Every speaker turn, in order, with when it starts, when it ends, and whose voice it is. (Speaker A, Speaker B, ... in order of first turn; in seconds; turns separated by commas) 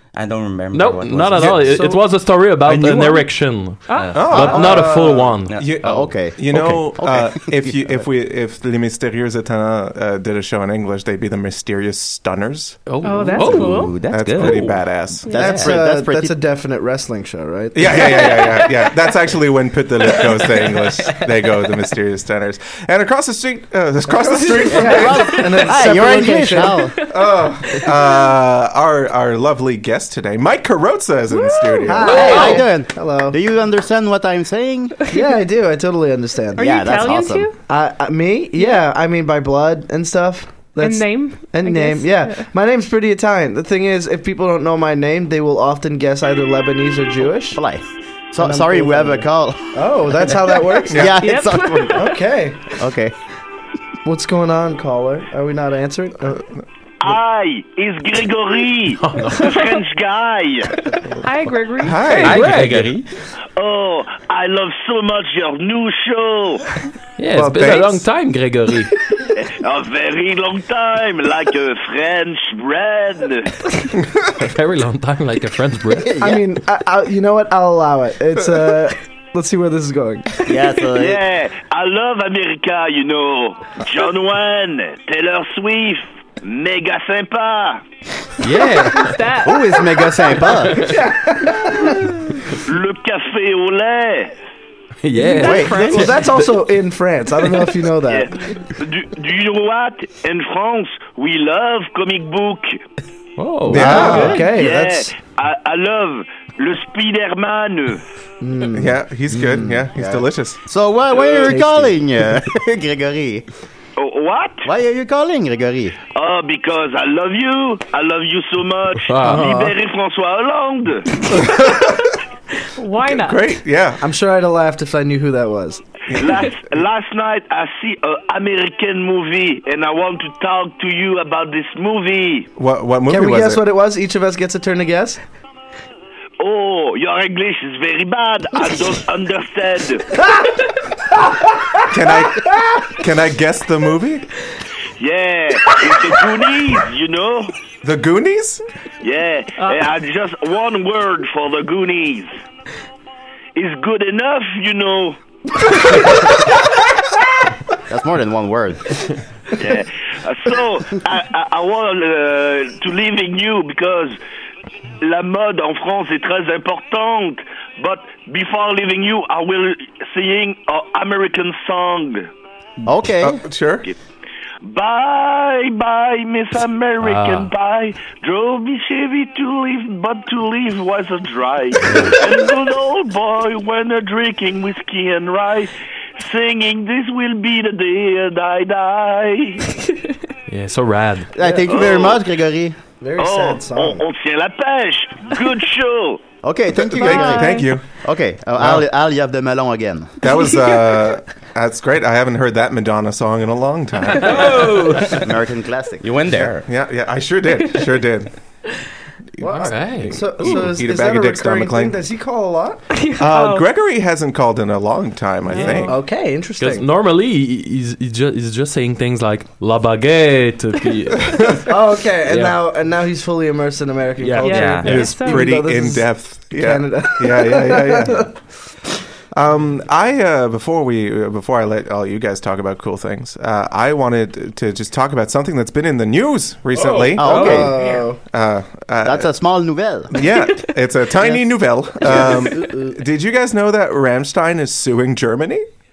Speaker A: 0.1-2.0, Speaker B: 0.7-5.6, Speaker A: 2.6-3.2, Speaker C: 2.9-4.7, Speaker A: 3.9-4.8, Speaker D: 4.2-12.8, Speaker E: 4.4-5.0, Speaker F: 4.5-5.3, Speaker A: 5.5-6.9, Speaker E: 5.8-8.0, Speaker B: 12.9-14.7, Speaker C: 13.0-14.0, Speaker A: 13.1-14.8, Speaker D: 14.1-15.7, Speaker E: 15.3-16.3, Speaker F: 15.3-18.4, Speaker A: 15.4-15.8, Speaker D: 17.7-25.3, Speaker C: 24.2-25.2, Speaker F: 24.4-26.9, Speaker E: 24.8-27.0, Speaker C: 27.0-27.3, Speaker D: 27.1-32.5, Speaker C: 31.3-32.6, Speaker F: 31.9-33.4, Speaker E: 32.0-35.0, Speaker F: 35.1-36.7, Speaker E: 36.6-37.5, Speaker C: 36.6-37.6, Speaker F: 37.7-47.6, Speaker C: 38.6-38.8, Speaker C: 40.8-42.5, Speaker E: 47.5-50.3, Speaker F: 48.4-51.1, Speaker E: 50.9-52.0, Speaker C: 51.0-52.2, Speaker F: 51.9-52.6, Speaker E: 52.7-53.2, Speaker F: 54.0-56.4, Speaker G: 57.0-60.9, Speaker B: 59.0-59.6, Speaker C: 59.4-59.8, Speaker C: 61.2-62.4, Speaker D: 61.8-62.9, Speaker A: 62.2-63.1, Speaker B: 62.2-62.9, Speaker G: 63.6-66.8, Speaker B: 67.2-68.9, Speaker D: 67.3-68.0, Speaker G: 69.3-73.6, Speaker B: 74.4-76.2, Speaker E: 76.0-76.4, Speaker F: 76.2-80.5, Speaker E: 80.4-81.2, Speaker G: 80.9-87.8, Speaker B: 88.4-89.2, Speaker C: 88.8-90.7, Speaker E: 89.4-91.0, Speaker F: 90.8-92.0, Speaker C: 91.8-92.1, Speaker G: 92.6-94.3, Speaker B: 95.0-96.4, Speaker C: 95.1-96.2, Speaker E: 95.4-96.1, Speaker F: 95.8-98.3, Speaker G: 98.0-102.8, Speaker B: 103.4-104.5, Speaker D: 103.7-104.4, Speaker F: 103.7-105.2, Speaker G: 104.0-108.0, Speaker F: 108.4-109.7, Speaker D: 108.8-110.6, Speaker E: 109.9-113.5, Speaker F: 111.5-111.9, Speaker G: 114.0-114.7, Speaker E: 114.7-116.0, Speaker G: 116.2-121.1, Speaker B: 119.1-119.5, Speaker F: 119.2-119.7, Speaker D: 121.3-122.2, Speaker C: 122.8-123.6, Speaker D: 123.0-124.0, Speaker F: 124.0-125.8, Speaker G: 126.1-132.5, Speaker D: 132.6-133.6, Speaker F: 133.1-135.2, Speaker G: 136.4-140.1, Speaker D: 141.9-144.3, Speaker G: 145.0-147.6, Speaker D: 147.8-148.6, Speaker G: 149.0-152.3, Speaker C: 149.6-149.9, Speaker G: 153.6-155.2, Speaker E: 157.9-159.1, Speaker G: 159.6-164.2, Speaker G: 165.0-172.3, Speaker E: 172.8-173.4, Speaker D: 173.2-173.9, Speaker G: 174.6-189.6, Speaker B: 177.0-177.5, Speaker B: 181.8-182.2, Speaker B: 190.5-191.3, Speaker E: 191.3-192.8, Speaker F: 191.4-191.7, Speaker G: 191.7-192.2, Speaker F: 193.0-194.0, Speaker G: 193.2-196.2, Speaker E: 196.4-200.2, Speaker D: 196.9-197.9, Speaker F: 197.1-197.4, Speaker C: 197.1-197.7, Speaker D: 198.6-198.8, Speaker D: 200.2-204.7, Speaker A: 204.2-205.3, Speaker E: 205.0-206.1, Speaker A: 206.0-206.7, Speaker D: 206.3-208.3, Speaker D: 209.4-212.0, Speaker F: 209.4-212.8, Speaker B: 209.5-210.6, Speaker C: 212.9-213.7, Speaker D: 213.2-216.0, Speaker C: 215.5-216.0, Speaker F: 215.9-216.9, Speaker B: 216.6-221.7, Speaker F: 221.6-228.3, Speaker B: 222.3-222.6, Speaker B: 224.2-225.0, Speaker C: 224.4-225.5, Speaker A: 224.5-224.9, Speaker D: 224.8-228.3, Speaker D: 229.3-239.3, Speaker E: 237.1-237.8, Speaker F: 237.2-238.2, Speaker E: 239.0-240.1, Speaker D: 240.1-245.7, Speaker F: 242.1-242.9